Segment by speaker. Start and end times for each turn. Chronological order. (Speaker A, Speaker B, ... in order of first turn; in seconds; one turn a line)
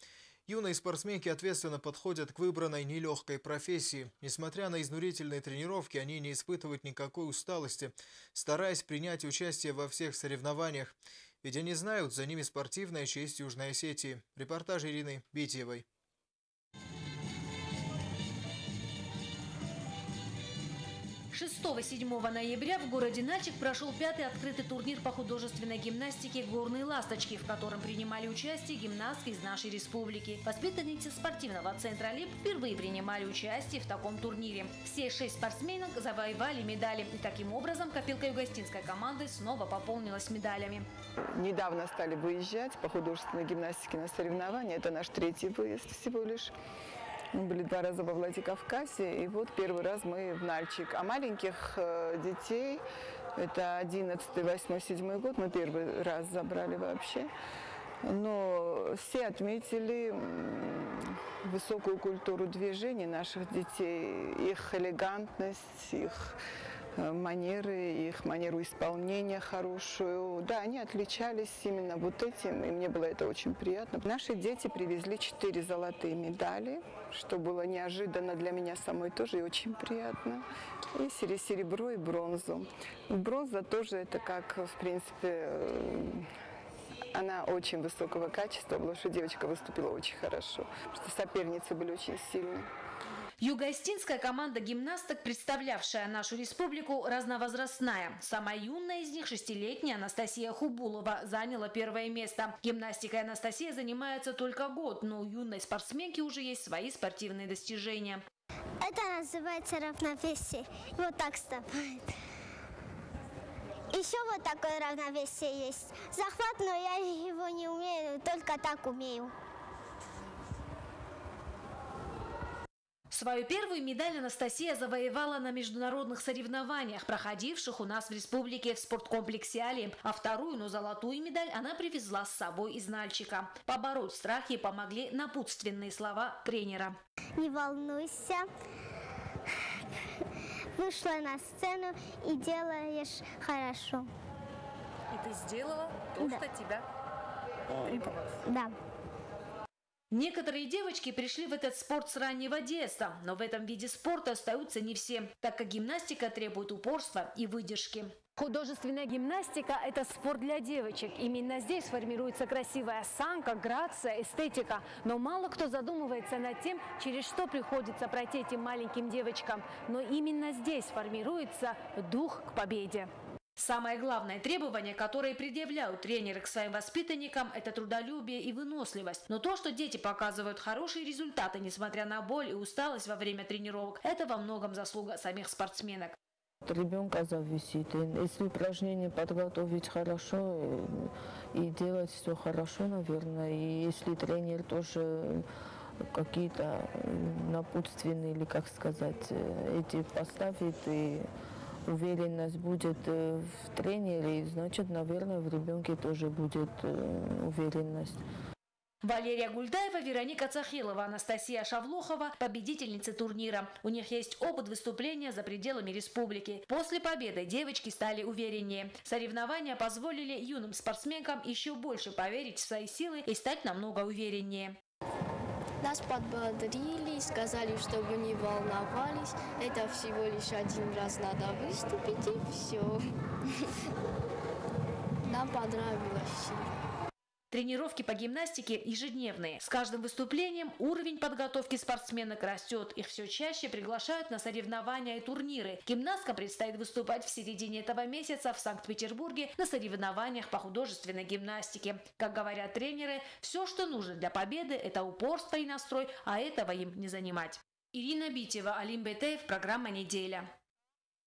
Speaker A: 0.5-15.9
Speaker B: 21.3-40.9
Speaker C: 41.4-46.5
Speaker C: 47.3-52.8
Speaker C: 53.4-57.3
Speaker C: 58.0-66.4
Speaker C: 67.0-86.3
Speaker C: 87.1-92.7
Speaker B: 93.4-108.2
Speaker D: 108.8-112.1
Speaker D: 113.9-119.3
Speaker B: 123.1-137.0
Speaker D: 137.4-138.5
Speaker D: 140.8-144.1
Speaker E: 145.1-146.8
Speaker E: 147.8-148.1
Speaker D: 148.4-148.7
Speaker B: 150.1-158.2
Speaker E: 158.4-173.1
Speaker B: 173.6-186.2
Speaker F: 186.7-195.4
Speaker F: 196.1-201.3
Speaker F: 201.9-208.2
Speaker B: 209.0-224.8
Speaker G: 225.8-233.0
Speaker G: 235.3-236.7
Speaker B: 237.5-260.5